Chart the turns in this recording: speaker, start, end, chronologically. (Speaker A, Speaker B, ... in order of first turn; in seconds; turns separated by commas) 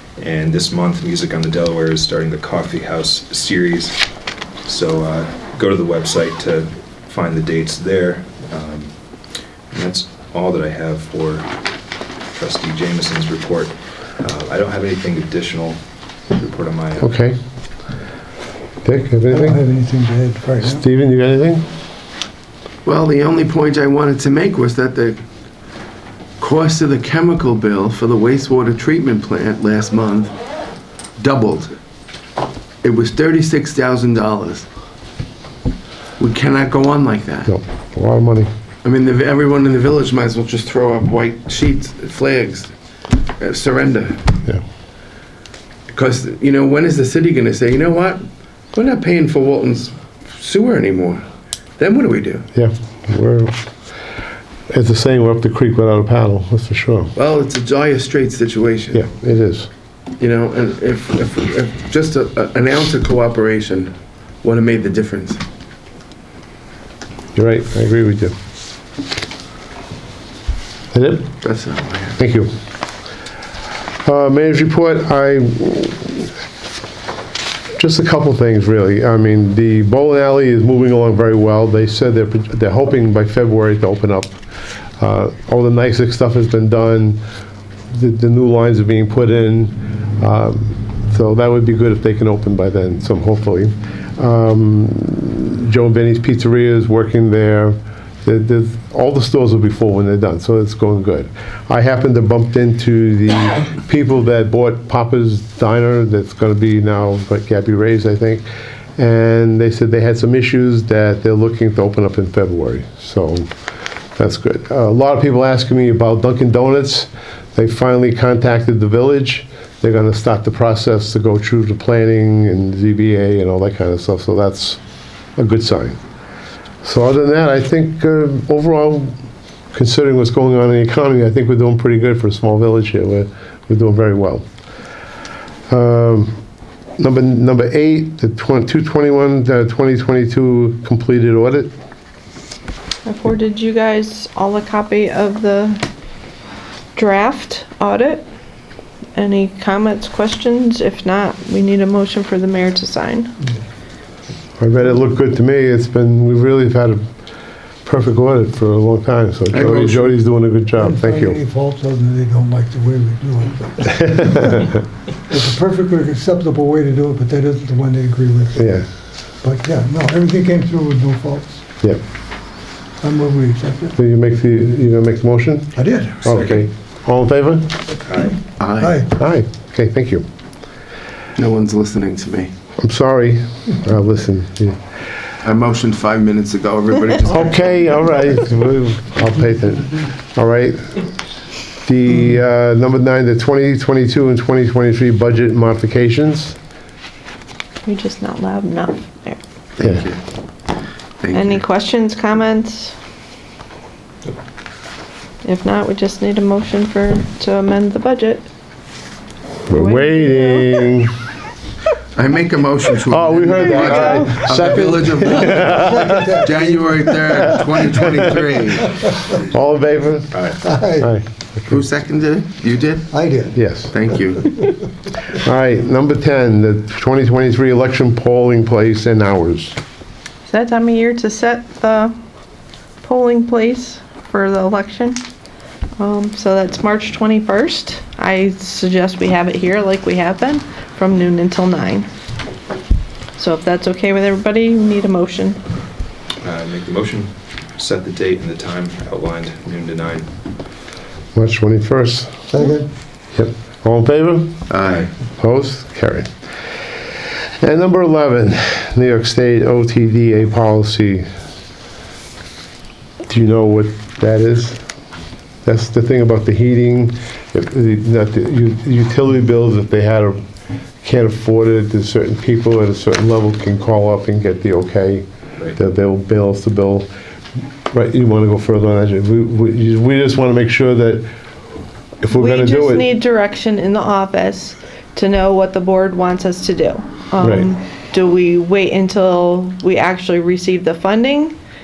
Speaker A: 0.2-4.0, Speaker A: 4.6-8.9, Speaker A: 9.7-11.5, Speaker A: 12.3-15.8, Speaker A: 16.3-17.1, Speaker B: 17.0-17.4, Speaker B: 18.8-19.6, Speaker C: 19.3-20.8, Speaker B: 20.6-21.6, Speaker D: 22.8-25.2, Speaker D: 26.4-30.3, Speaker D: 31.2-31.7, Speaker D: 32.8-34.6, Speaker D: 36.2-37.5, Speaker B: 37.5-38.5, Speaker D: 38.8-42.7, Speaker D: 43.4-44.3, Speaker D: 45.9-51.2, Speaker D: 51.8-52.5, Speaker B: 52.5-53.6, Speaker B: 54.7-57.1, Speaker D: 57.1-59.0, Speaker B: 58.9-59.7, Speaker D: 60.2-65.4, Speaker B: 67.3-68.3, Speaker B: 70.9-71.4, Speaker D: 71.4-72.2, Speaker B: 72.2-72.5, Speaker B: 74.0-76.3, Speaker B: 77.8-84.4, Speaker B: 85.0-87.2, Speaker B: 87.9-108.4, Speaker B: 109.0-113.5, Speaker B: 114.2-124.8, Speaker B: 125.4-126.0, Speaker B: 126.8-129.2, Speaker B: 129.7-134.4, Speaker B: 135.7-136.3, Speaker B: 137.0-141.7, Speaker E: 143.0-145.8, Speaker E: 146.9-148.2, Speaker E: 149.1-153.3, Speaker B: 154.6-157.0, Speaker B: 157.8-161.4, Speaker D: 159.5-160.2, Speaker C: 160.8-164.7, Speaker B: 164.0-164.8, Speaker C: 165.3-168.6, Speaker B: 168.6-168.8, Speaker C: 169.4-171.6, Speaker C: 173.0-173.9, Speaker B: 173.9-177.8, Speaker C: 175.7-176.3, Speaker A: 176.3-176.7, Speaker A: 178.1-178.4, Speaker D: 178.6-179.0, Speaker C: 178.8-179.1, Speaker B: 179.1-180.2, Speaker D: 181.3-182.5, Speaker B: 182.8-184.8, Speaker D: 185.4-187.7, Speaker B: 187.2-191.0, Speaker B: 191.8-196.6, Speaker E: 197.8-199.4, Speaker D: 199.8-200.2, Speaker D: 201.2-201.6, Speaker E: 201.3-202.9, Speaker E: 205.4-208.5, Speaker E: 209.7-210.9, Speaker B: 209.7-211.1, Speaker D: 212.2-215.7, Speaker B: 213.1-216.4, Speaker E: 213.6-214.3, Speaker C: 215.3-217.6, Speaker D: 216.4-218.9, Speaker C: 218.1-219.2, Speaker B: 219.4-221.2, Speaker A: 220.3-220.6, Speaker C: 220.6-221.1, Speaker D: 221.7-223.2, Speaker C: 223.1-223.6, Speaker B: 223.5-223.9, Speaker D: 223.8-224.5, Speaker B: 225.3-229.8, Speaker E: 230.5-232.1, Speaker E: 233.0-235.2, Speaker E: 236.0-242.1, Speaker E: 243.4-245.6, Speaker A: 246.4-250.3, Speaker B: 251.3-252.5, Speaker C: 252.5-252.9, Speaker B: 253.3-254.6, Speaker D: 254.7-255.1, Speaker B: 255.4-256.3, Speaker B: 257.6-261.2, Speaker B: 263.3-264.8, Speaker B: 265.6-270.4, Speaker B: 271.0-277.1, Speaker B: 277.9-281.2, Speaker B: 282.2-283.1, Speaker E: 282.3-291.6, Speaker B: 287.4-287.7